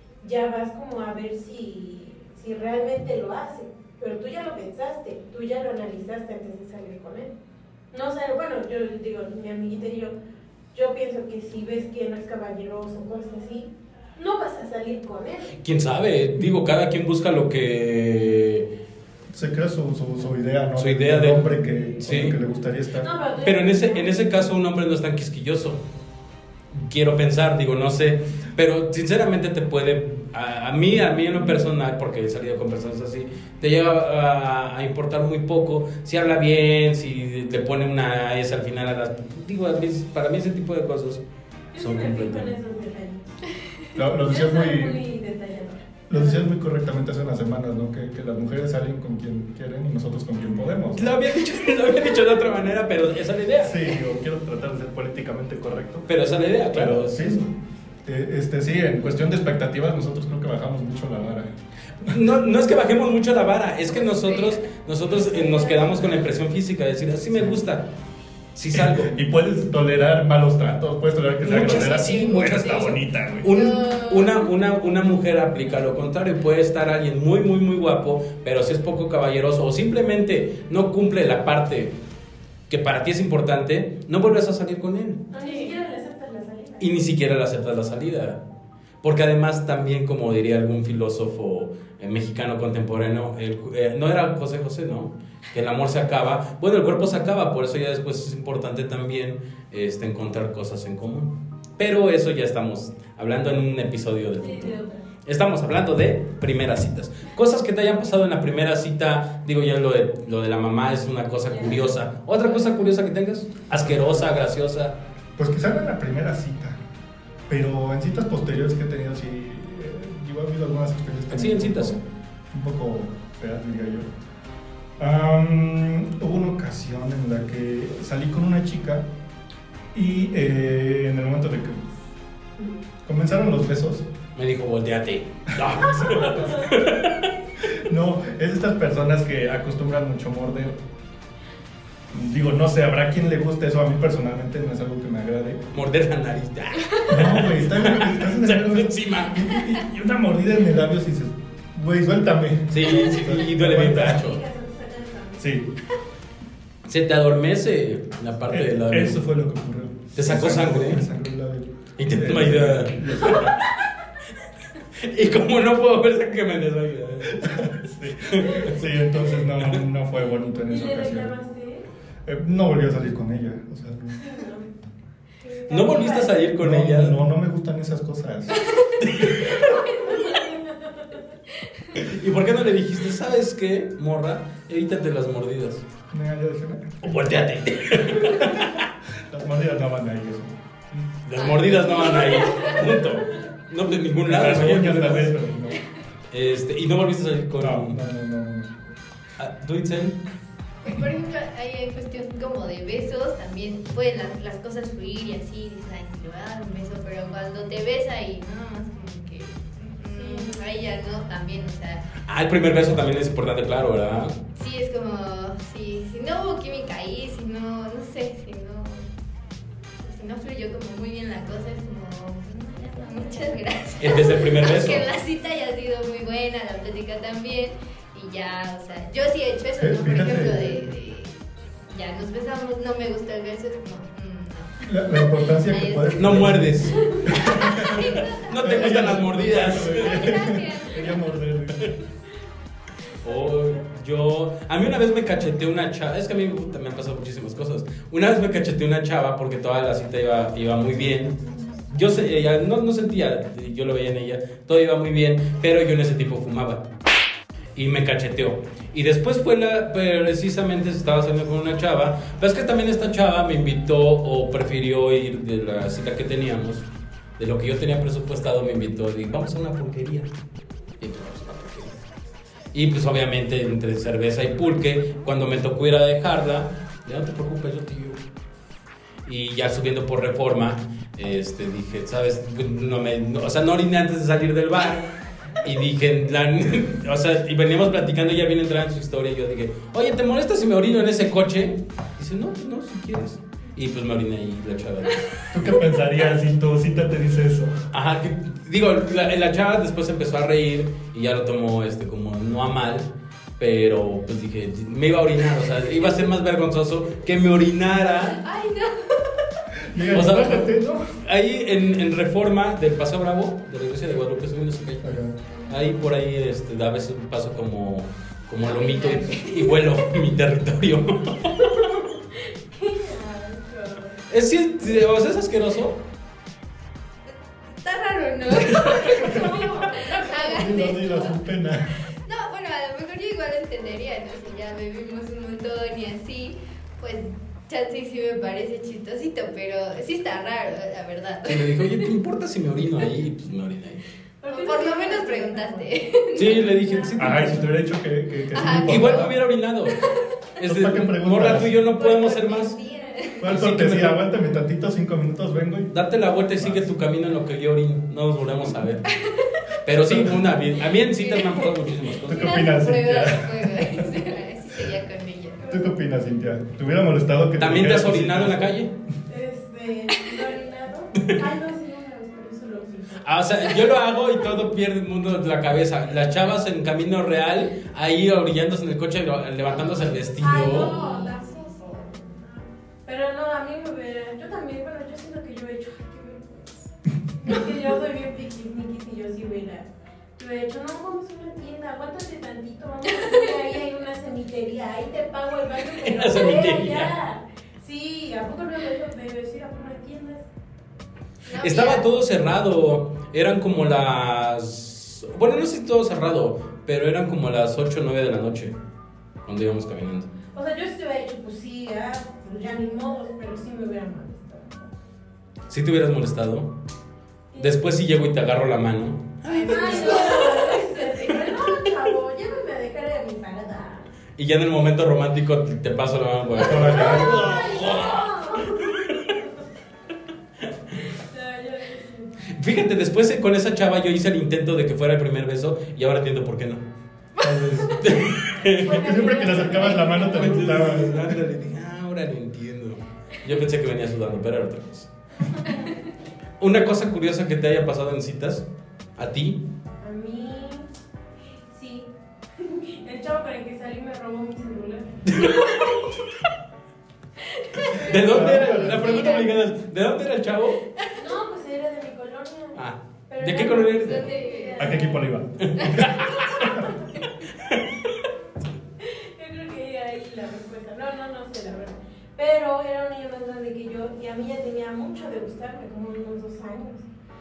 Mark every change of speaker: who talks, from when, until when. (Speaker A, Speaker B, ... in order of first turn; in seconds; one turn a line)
Speaker A: 0.2-7.3
Speaker A: 7.9-10.1
Speaker A: 10.7-15.6
Speaker B: 15.6-18.6
Speaker C: 19.3-23.1
Speaker B: 20.8-22.4
Speaker A: 23.0-24.3
Speaker B: 23.4-25.8
Speaker B: 26.7-41.2
Speaker A: 41.7-43.4
Speaker B: 41.8-42.5
Speaker C: 43.9-45.0
Speaker A: 44.2-46.4
Speaker C: 46.1-51.1
Speaker B: 51.0-53.9
Speaker C: 53.6-56.1
Speaker B: 56.1-57.4
Speaker C: 56.7-57.5
Speaker C: 58.0-61.5
Speaker B: 62.0-67.9
Speaker D: 63.9-64.6
Speaker D: 65.2-65.9
Speaker A: 65.4-66.0
Speaker B: 68.5-69.1
Speaker C: 68.7-73.5
Speaker B: 71.4-81.9
Speaker D: 71.7-74.5
Speaker B: 82.7-85.2
Speaker A: 85.3-86.9
Speaker D: 85.4-85.7
Speaker B: 86.8-88.4
Speaker B: 89.0-115.0
Speaker A: 104.4-105.1
Speaker A: 111.5-112.8
Speaker C: 113.9-114.2
Speaker C: 115.4-116.8
Speaker C: 117.5-124.1
Speaker B: 121.3-121.9
Speaker C: 125.0-129.1
Speaker C: 129.9-131.9
Speaker C: 132.6-134.1
Speaker B: 134.4-137.3
Speaker C: 135.5-136.9
Speaker C: 137.6-140.8
Speaker C: 142.1-145.6
Speaker B: 145.7-149.4
Speaker C: 147.1-154.2
Speaker B: 152.7-154.4
Speaker A: 154.0-155.5
Speaker C: 155.4-155.7
Speaker B: 156.9-159.2
Speaker C: 158.5-163.6
Speaker B: 160.1-161.0
Speaker B: 162.0-163.5
Speaker B: 165.0-167.7
Speaker C: 167.3-171.3
Speaker B: 168.3-168.7
Speaker A: 170.7-171.8
Speaker C: 172.2-174.2
Speaker A: 174.2-174.7
Speaker A: 175.4-176.5
Speaker B: 175.7-177.2
Speaker C: 176.6-178.6
Speaker B: 179.0-179.8
Speaker A: 179.5-181.3
Speaker B: 181.9-185.8
Speaker C: 186.1-187.2
Speaker B: 187.0-188.9
Speaker C: 188.2-188.7
Speaker C: 189.2-191.0
Speaker B: 191.2-195.3
Speaker D: 191.4-193.1
Speaker C: 194.2-195.8
Speaker B: 196.3-198.0
Speaker C: 197.6-198.8
Speaker B: 199.4-200.2
Speaker D: 200.8-212.1
Speaker A: 210.1-210.7
Speaker B: 212.3-214.3
Speaker D: 214.5-219.1
Speaker D: 220.0-231.4
Speaker B: 224.0-225.0
Speaker C: 229.8-230.9
Speaker D: 231.9-241.3
Speaker C: 234.8-241.9
Speaker B: 236.2-237.0
Speaker B: 238.4-240.4
Speaker B: 243.2-251.4
Speaker A: 243.2-243.8
Speaker A: 251.4-251.8
Speaker B: 251.9-256.8
Speaker B: 257.7-266.9
Speaker B: 267.4-270.3
Speaker B: 271.0-272.0
Speaker B: 272.7-278.2
Speaker B: 279.2-285.1
Speaker B: 285.6-295.8
Speaker C: 295.5-297.8
Speaker B: 297.9-308.4
Speaker D: 308.4-309.3
Speaker C: 309.8-311.1
Speaker B: 310.1-310.7
Speaker B: 311.2-315.1
Speaker C: 315.0-315.4
Speaker D: 315.5-315.8
Speaker B: 315.7-321.7
Speaker D: 318.6-319.8
Speaker A: 319.1-319.5
Speaker A: 321.6-324.2
Speaker B: 324.3-326.0
Speaker D: 327.7-331.4
Speaker A: 329.0-330.7
Speaker C: 330.4-332.0
Speaker D: 332.0-342.1
Speaker B: 341.4-344.0
Speaker A: 344.4-347.4
Speaker D: 344.5-346.7
Speaker B: 346.4-347.7
Speaker C: 347.2-349.3
Speaker D: 348.5-349.3
Speaker B: 348.8-350.0
Speaker D: 349.9-350.3
Speaker B: 350.6-352.7
Speaker C: 350.6-351.8
Speaker D: 351.8-353.4
Speaker C: 353.4-355.9
Speaker B: 353.4-354.2
Speaker B: 355.9-359.0
Speaker C: 356.6-356.9
Speaker D: 359.1-359.7
Speaker B: 359.8-362.7
Speaker C: 359.9-360.4
Speaker D: 360.9-365.6
Speaker C: 362.2-364.2
Speaker A: 365.6-365.9
Speaker C: 365.7-368.8
Speaker B: 367.6-368.9
Speaker A: 369.3-373.2
Speaker B: 373.2-381.0
Speaker D: 379.7-382.0
Speaker A: 380.4-386.9
Speaker A: 387.4-400.5
Speaker B: 395.9-397.1
Speaker D: 401.4-402.0
Speaker B: 401.6-408.7
Speaker B: 409.4-410.3
Speaker A: 410.5-414.9
Speaker B: 415.7-416.7
Speaker A: 417.5-417.9
Speaker B: 417.6-420.7
Speaker A: 419.5-424.1
Speaker D: 419.6-421.3
Speaker B: 424.4-429.2
Speaker C: 426.6-427.6
Speaker A: 426.7-429.6
Speaker A: 431.1-432.4
Speaker B: 432.5-436.8
Speaker C: 437.4-438.0
Speaker B: 438.0-439.7
Speaker A: 438.7-441.1
Speaker C: 438.8-441.4
Speaker B: 440.2-445.1
Speaker A: 445.5-445.9
Speaker B: 446.6-449.6
Speaker A: 450.0-450.9
Speaker A: 451.7-455.1
Speaker B: 455.2-455.7
Speaker D: 455.6-456.0
Speaker D: 457.6-459.5
Speaker B: 458.0-460.8
Speaker C: 458.2-459.1
Speaker A: 461.1-465.2
Speaker B: 462.7-464.3
Speaker D: 463.9-465.0
Speaker C: 464.8-466.1
Speaker B: 465.6-466.8
Speaker D: 465.8-466.6
Speaker A: 466.8-467.1
Speaker B: 467.5-468.1
Speaker A: 469.0-477.1